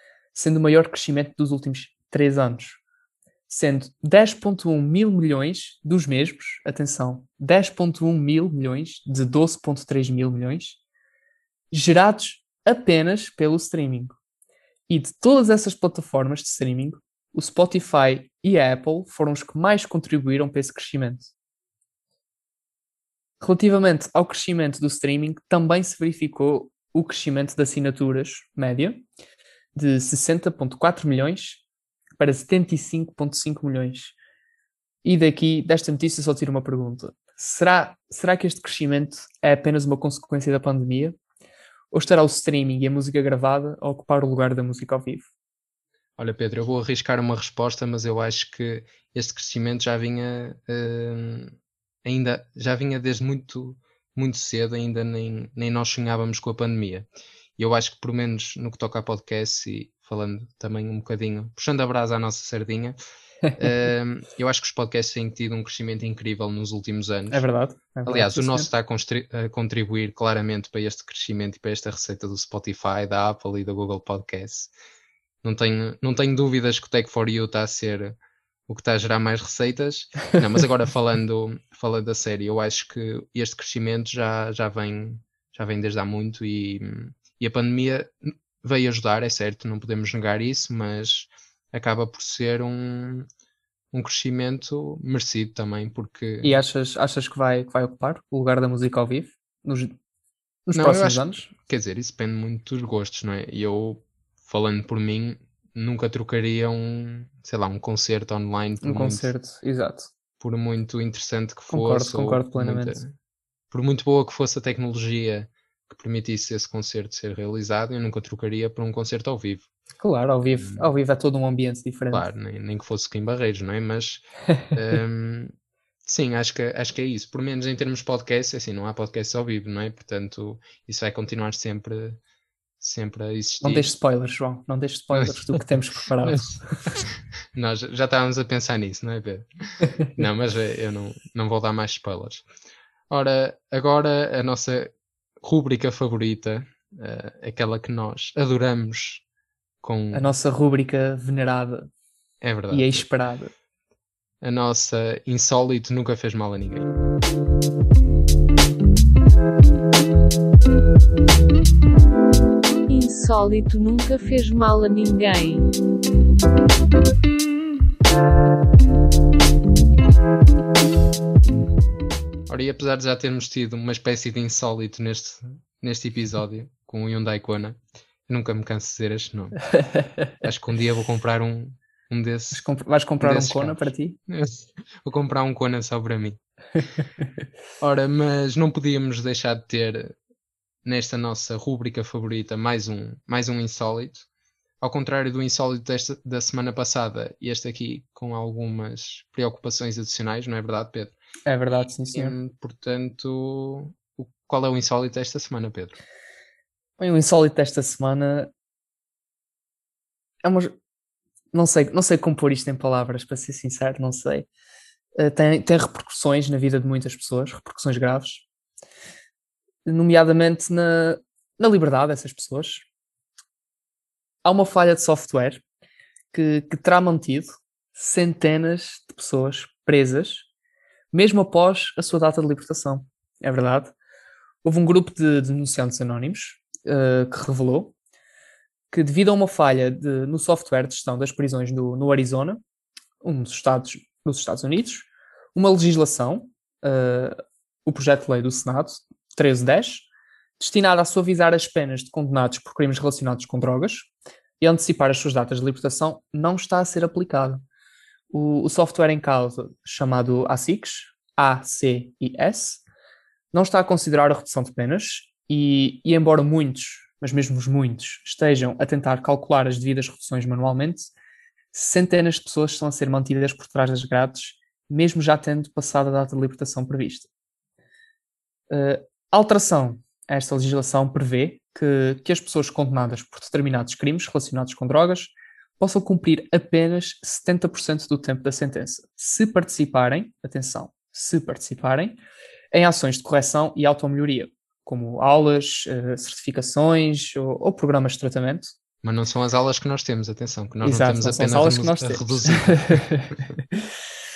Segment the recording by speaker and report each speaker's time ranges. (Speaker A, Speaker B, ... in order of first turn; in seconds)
Speaker A: 0.3-2.8, 3.5-10.8, 11.7-14.2, 14.9-21.3, 23.4-29.0, 29.8-31.6, 32.2-34.1, 35.0-41.2, 41.9-45.3, 67.3-68.7, 96.4-99.9, 100.7-101.5, 108.8-110.1, 111.7-113.0, 120.0-122.3, 133.6-136.7, 150.1-151.9, 152.7-153.5, 182.5-184.2, 201.5-202.4, 207.0-208.5, 210.4-210.7, 211.5-214.5, 215.2-218.4, 219.8-222.9, 224.4-225.6, 226.3-230.5, 231.1-233.9, 234.6-237.9, 238.9-242.6, 243.2-250.1, 250.6-257.6, 258.3-262.8, 263.5-271.1, 271.7-277.3, 278.7-292.2, 292.7-298.7, 300.8-303.4
Speaker B: 46.2-63.0, 63.6-67.5, 68.1-74.7, 75.4-78.2, 78.7-93.3, 93.9-96.6, 100.7-109.3, 110.4-113.1, 113.7-119.7, 120.5-120.9, 122.1-125.5, 126.0-132.2, 132.8-133.9, 135.2-135.6, 136.2-142.5, 143.1-149.2, 149.8-150.3, 152.4-153.1, 154.4-156.9, 172.5-179.8, 180.4-182.7, 183.2-186.4, 187.8-190.1, 190.8-194.3, 194.8-201.1, 202.1-206.0, 299.0-303.1
Speaker C: 162.9-165.7